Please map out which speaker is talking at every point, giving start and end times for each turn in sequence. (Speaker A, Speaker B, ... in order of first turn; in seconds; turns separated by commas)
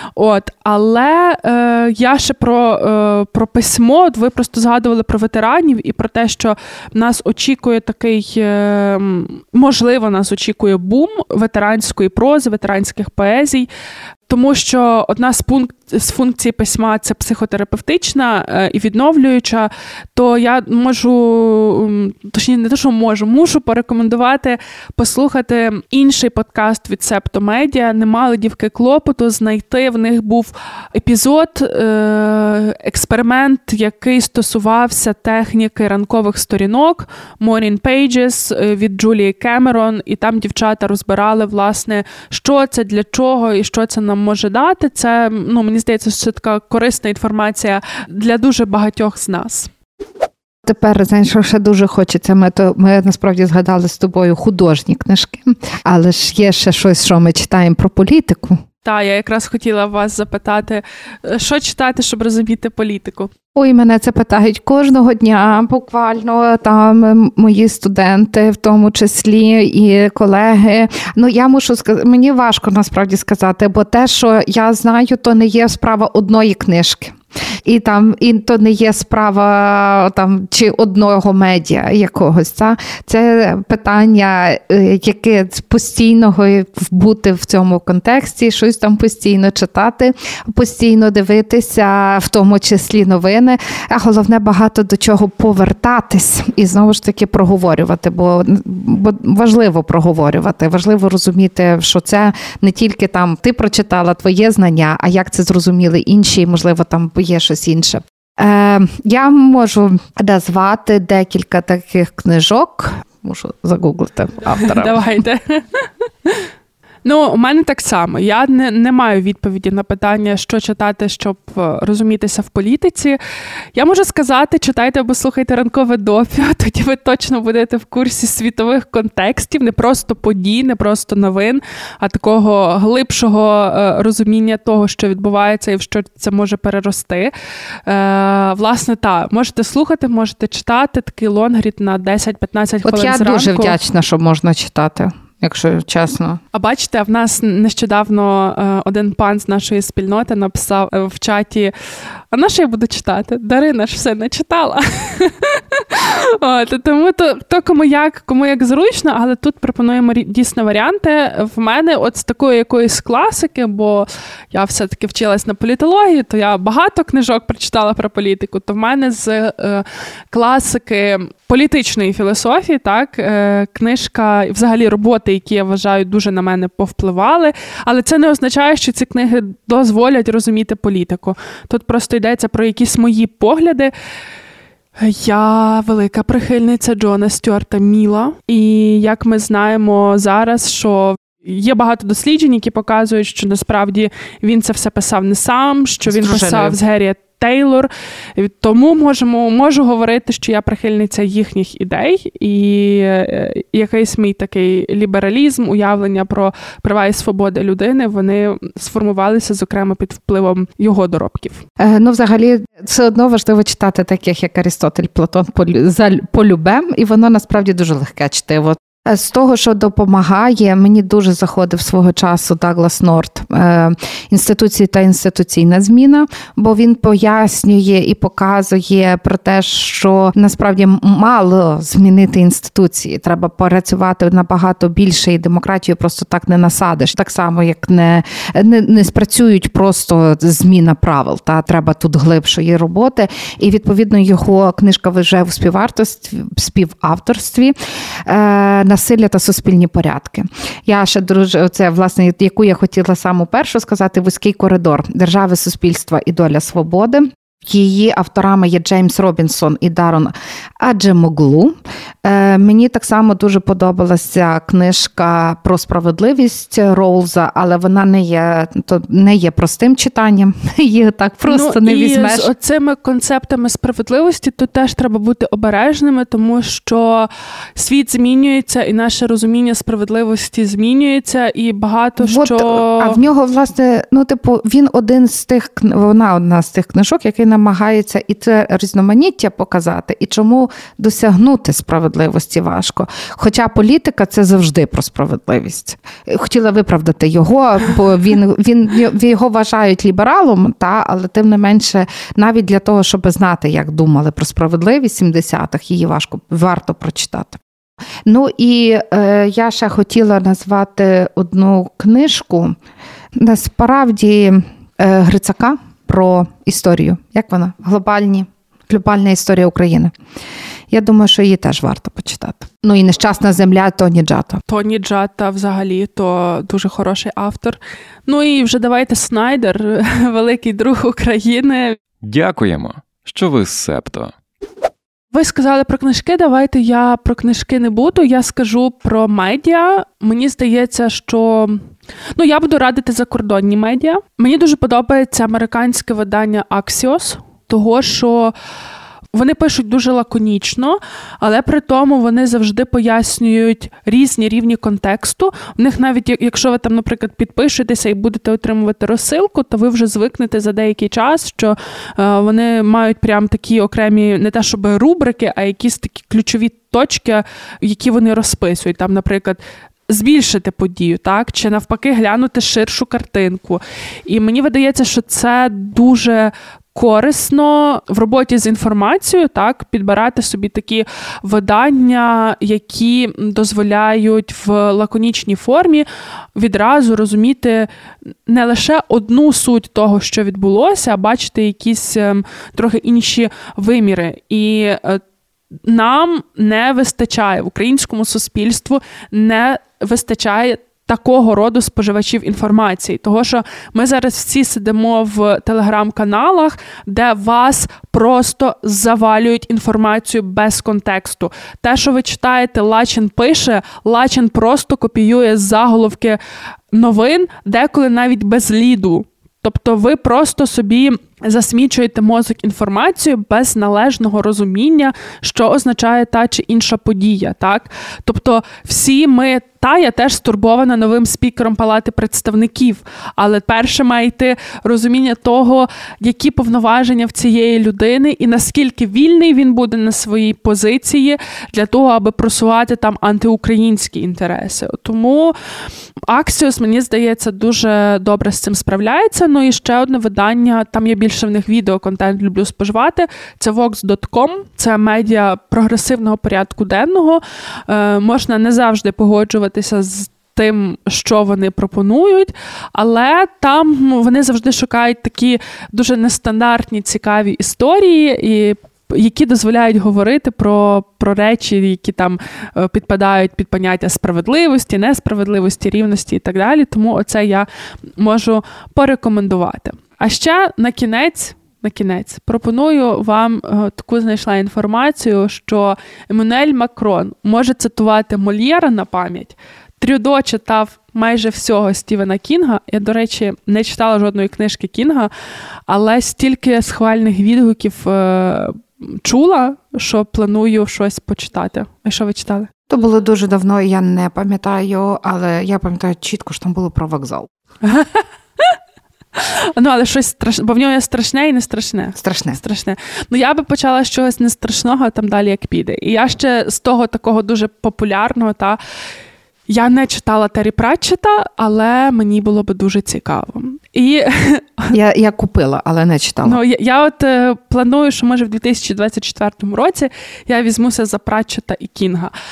Speaker A: 0.2-13.7, Speaker A: 14.3-49.7, Speaker B: 50.6-58.6, Speaker A: 58.8-63.3, Speaker B: 63.5-115.0, Speaker A: 114.5-116.5, Speaker A: 117.0-123.2, Speaker A: 123.7-137.3, Speaker A: 137.9-143.8, Speaker B: 142.8-146.4, Speaker A: 146.5-151.7, Speaker A: 152.3-183.9, Speaker A: 185.0-211.6, Speaker B: 196.1-196.8, Speaker B: 211.8-247.7, Speaker B: 248.2-272.5, Speaker A: 271.5-283.2, Speaker B: 282.2-307.6, Speaker B: 308.2-312.7, Speaker B: 313.4-320.1, Speaker B: 320.9-324.6, Speaker A: 324.7-332.0, Speaker C: 332.2-334.3, Speaker A: 335.3-341.8, Speaker A: 342.4-348.5, Speaker A: 349.3-387.9, Speaker A: 388.5-395.2, Speaker A: 395.9-416.4, Speaker A: 416.9-445.5, Speaker A: 446.3-477.7, Speaker A: 478.2-495.3, Speaker A: 495.9-502.7, Speaker B: 502.9-507.5, Speaker A: 507.8-508.7, Speaker A: 509.4-518.8, Speaker B: 512.2-512.6, Speaker A: 519.7-524.9, Speaker B: 524.9-526.6, Speaker A: 526.4-532.3